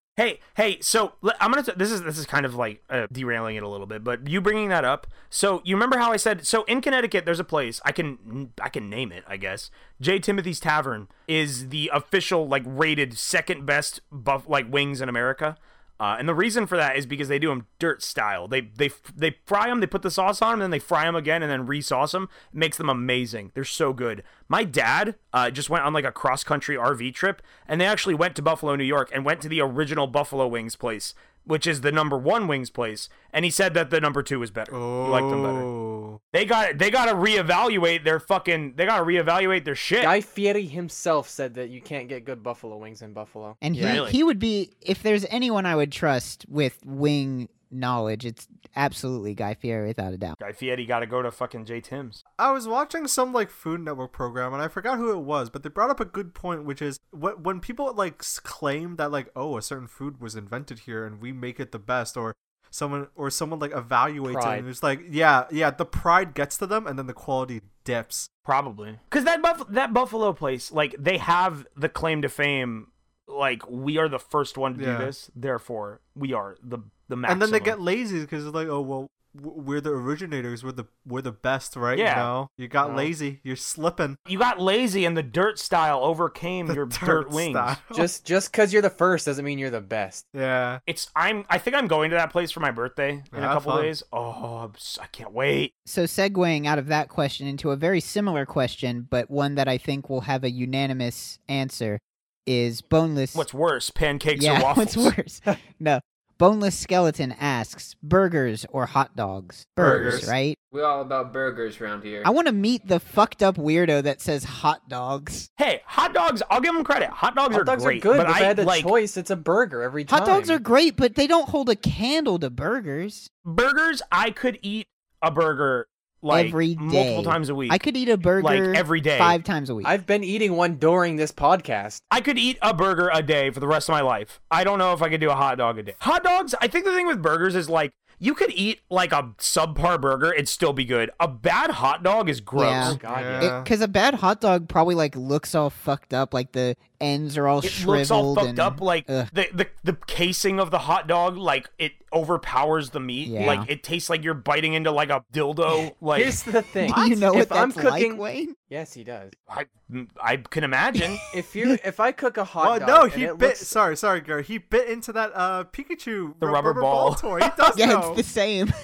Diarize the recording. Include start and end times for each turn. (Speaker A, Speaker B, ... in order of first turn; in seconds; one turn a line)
Speaker A: 0.2-35.7
Speaker B: 34.7-36.2
Speaker A: 36.3-40.1
Speaker C: 40.0-44.0
Speaker D: 43.6-50.4
Speaker A: 43.8-44.2
Speaker A: 50.4-52.2
Speaker B: 52.4-68.3
Speaker C: 64.2-64.7
Speaker A: 68.4-77.8
Speaker B: 74.7-75.1
Speaker B: 77.3-84.2
Speaker A: 81.9-82.3
Speaker C: 82.8-83.1
Speaker A: 84.3-87.8
Speaker B: 86.7-88.1
Speaker C: 87.9-90.2
Speaker B: 90.3-90.8
Speaker A: 90.9-95.7
Speaker B: 93.3-93.9
Speaker D: 95.8-103.5
Speaker A: 103.3-105.1
Speaker D: 104.3-110.5
Speaker B: 109.8-110.3
Speaker E: 109.8-112.3
Speaker D: 112.2-115.5
Speaker A: 115.6-118.9
Speaker C: 117.5-120.6
Speaker D: 120.1-123.3
Speaker A: 123.4-127.8
Speaker D: 126.3-129.9
Speaker A: 128.4-129.4
Speaker C: 129.8-132.0
Speaker A: 132.1-143.0
Speaker D: 142.6-149.3
Speaker C: 142.8-143.5
Speaker B: 143.1-143.7
Speaker A: 147.6-156.4
Speaker D: 153.2-153.7
Speaker C: 155.7-159.3
Speaker D: 156.8-158.6
Speaker A: 159.5-161.2
Speaker C: 161.3-163.8
Speaker B: 162.6-168.2
Speaker A: 166.4-167.5
Speaker D: 167.7-168.7